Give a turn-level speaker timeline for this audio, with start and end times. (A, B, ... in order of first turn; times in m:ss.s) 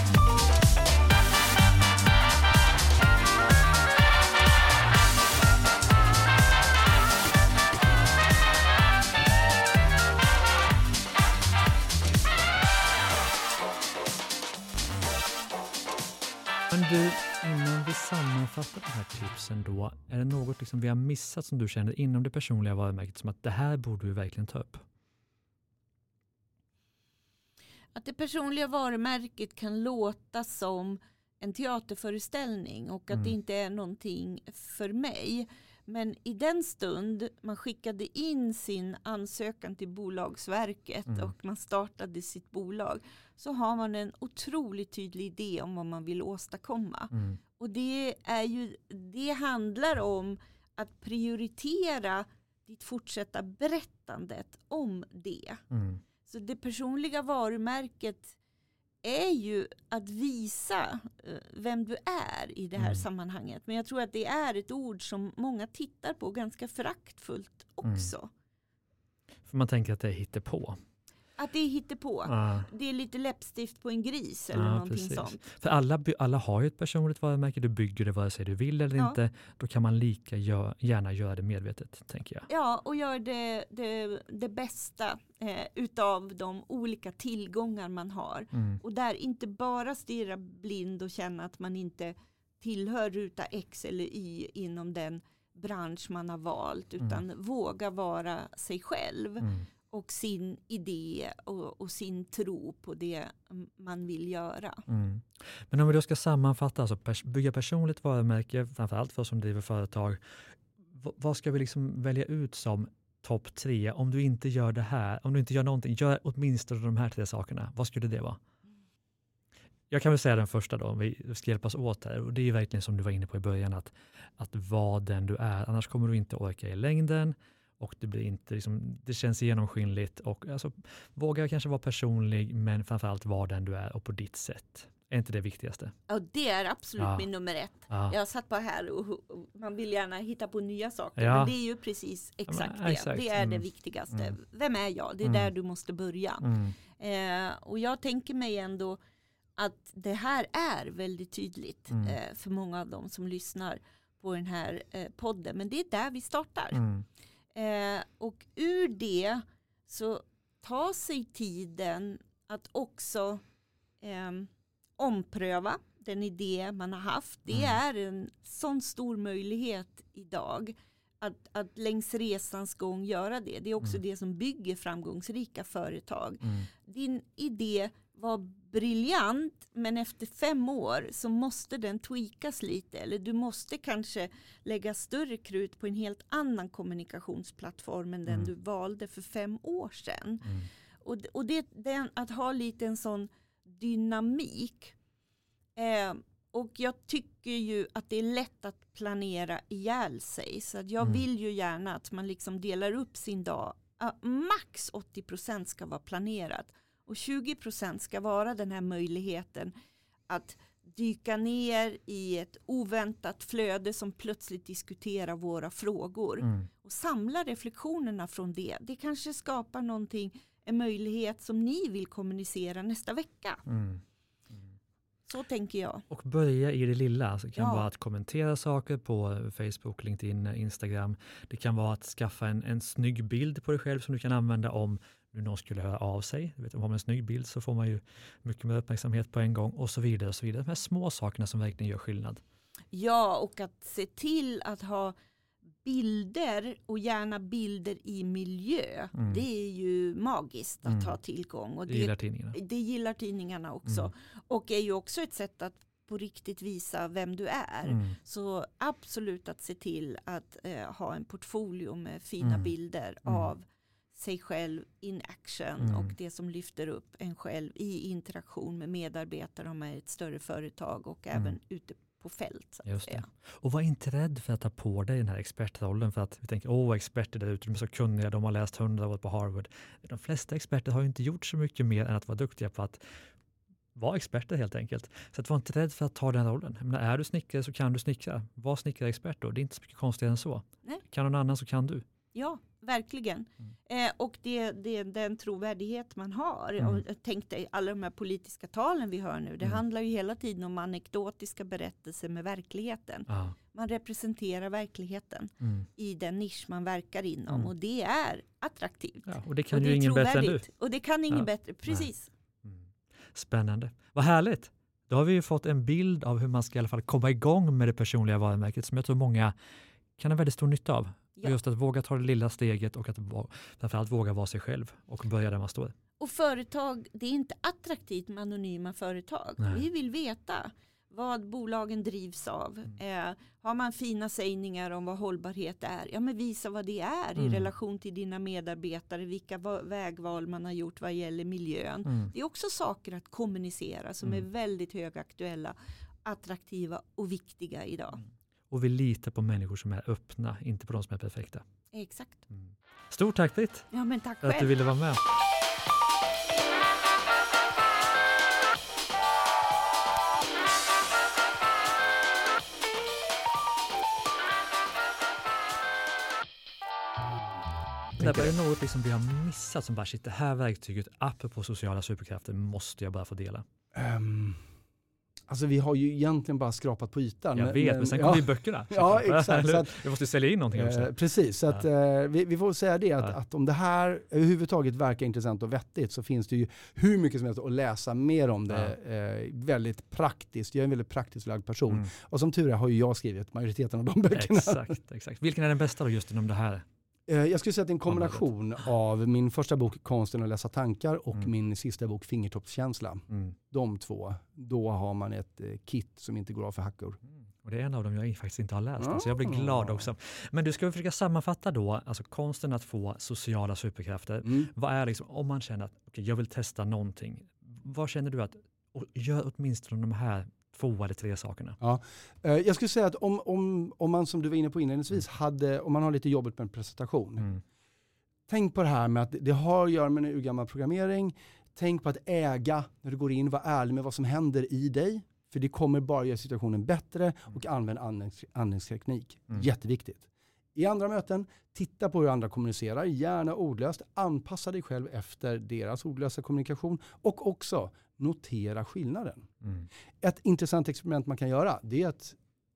0:16.7-0:24.8 A
0:27.9-0:55.6 B
0:41.1-0:41.3 A
0:47.1-0:47.4 A
0:55.7-0:56.0 A
0:56.2-0:58.4 B
0:59.0-1:08.3 B
1:02.8-1:03.0 A
1:07.8-1:08.1 A
1:09.4-1:10.8 A
1:11.4-1:15.5 B
1:12.2-1:12.7 A
1:14.5-1:22.5 A
1:22.5-1:44.8 B
1:28.5-1:28.8 A
1:44.9-1:50.2 A
1:50.9-1:58.4 A
1:59.9-2:15.9 A
2:16.1-2:29.0 B
2:17.0-2:17.2 A
2:17.9-2:18.1 A
2:21.2-2:21.6 A
2:22.5-2:24.3 A
2:25.2-2:25.5 A
2:26.4-2:26.8 A
2:29.6-2:36.8 B
2:31.9-2:32.2 A
2:36.7-2:37.0 A
2:37.5-2:43.4 B
2:44.0-3:10.4 B
2:47.5-2:47.8 A
2:56.4-2:56.7 A
3:10.4-3:10.7 A
3:11.0-3:14.9 B
3:15.8-3:29.7 B
3:30.3-3:43.6 B
3:36.4-3:36.7 A
3:43.7-3:44.0 A
3:45.3-3:46.0 B
3:46.1-4:02.4 A
3:47.6-3:47.9 B
4:02.9-4:05.1 B
4:05.8-4:33.2 B
4:09.2-4:09.4 A
4:10.9-4:11.1 A
4:11.9-4:12.6 A
4:17.8-4:18.2 A
4:22.4-4:22.7 A
4:23.2-4:23.5 A
4:25.8-4:26.1 A
4:32.8-4:43.0 A
4:43.9-4:52.0 A
4:52.3-5:12.3 B
5:03.3-5:03.6 A
5:05.6-5:05.9 A
5:09.3-5:10.6 A
5:11.3-5:12.1 A
5:12.6-5:19.5 A
5:20.2-5:25.9 A
5:26.2-5:48.2 B
5:37.4-5:37.7 A
5:48.7-5:51.6 A
5:51.9-5:52.4 B
5:52.6-5:53.9 A
5:53.9-5:54.7 B
5:54.4-5:55.2 A
6:08.2-6:13.6 A
6:08.2-6:08.5 C
6:13.9-6:14.6 C
6:15.5-6:20.1 C
6:17.5-6:21.1 A
6:20.7-6:35.0 C
6:34.3-6:36.8 A
6:37.3-6:47.2 C
6:38.0-6:38.5 A
6:43.3-6:43.5 A
6:47.6-7:01.8 A
6:49.0-6:50.1 C
7:01.8-7:07.5 C
7:08.5-7:29.4 C
7:29.6-7:29.9 A
7:30.2-7:32.4 C